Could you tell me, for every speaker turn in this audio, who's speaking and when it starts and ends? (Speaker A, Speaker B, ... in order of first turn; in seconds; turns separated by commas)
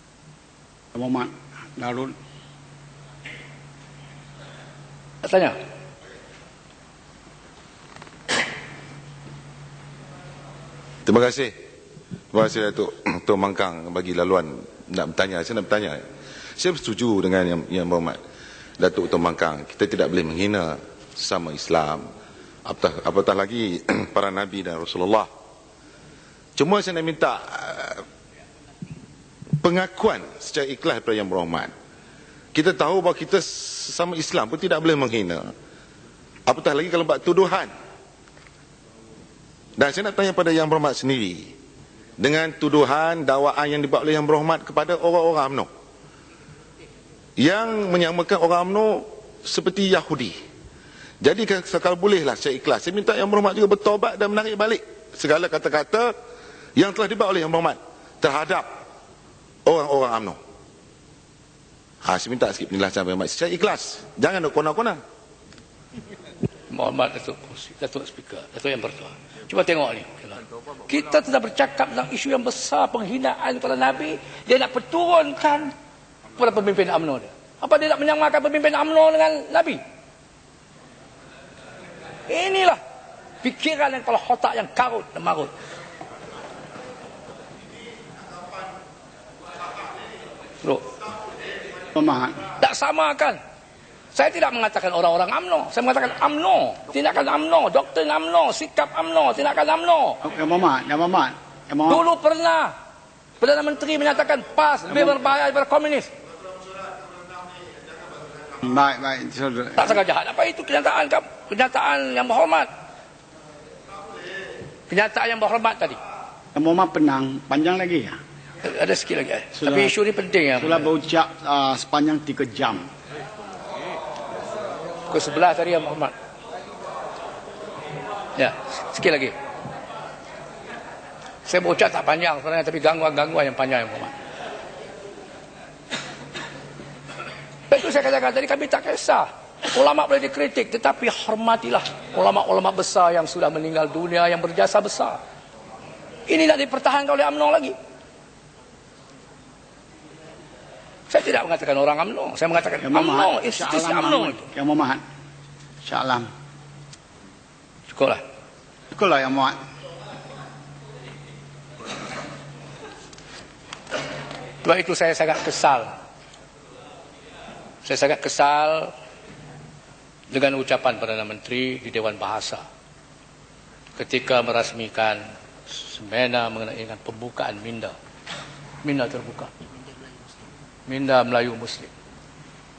Speaker A: 0.9-2.1, Speaker B: 5.2-5.6, Speaker C: 11.1-11.5, Speaker C: 12.3-16.0, Speaker C: 16.6-18.2, Speaker C: 18.8-22.1, Speaker C: 22.7-25.3, Speaker C: 26.6-28.0, Speaker C: 29.6-31.7, Speaker C: 32.5-35.5, Speaker C: 36.5-37.7, Speaker C: 39.8-41.5, Speaker C: 42.2-45.7, Speaker C: 47.4-50.4, Speaker C: 51.2-56.1, Speaker C: 56.8-58.7, Speaker C: 59.7-60.4, Speaker C: 62.0-65.0, Speaker B: 66.7-75.7, Speaker B: 76.4-79.8, Speaker B: 82.3-82.8, Speaker B: 83.4-85.5, Speaker A: 92.0-92.4, Speaker B: 92.6-93.4, Speaker B: 94.1-100.2, Speaker A: 100.2-102.0, Speaker B: 101.9-102.7, Speaker B: 103.4-106.1, Speaker A: 108.6-110.0, Speaker B: 109.8-112.7, Speaker B: 114.9-116.0, Speaker A: 116.5-118.2, Speaker B: 118.6-120.9, Speaker A: 119.6-119.9, Speaker A: 120.6-122.9, Speaker B: 125.1-126.1, Speaker B: 128.4-129.3, Speaker B: 131.4-134.2, Speaker B: 137.7-145.2, Speaker B: 146.3-147.8, Speaker B: 151.1-154.5, Speaker A: 152.8-155.0, Speaker A: 155.8-156.3, Speaker B: 157.9-158.2, Speaker A: 158.9-159.6, Speaker B: 164.6-165.9, Speaker B: 167.8-168.9, Speaker B: 170.3-172.6, Speaker B: 174.0-177.9, Speaker B: 178.8-179.5, Speaker B: 180.9-181.9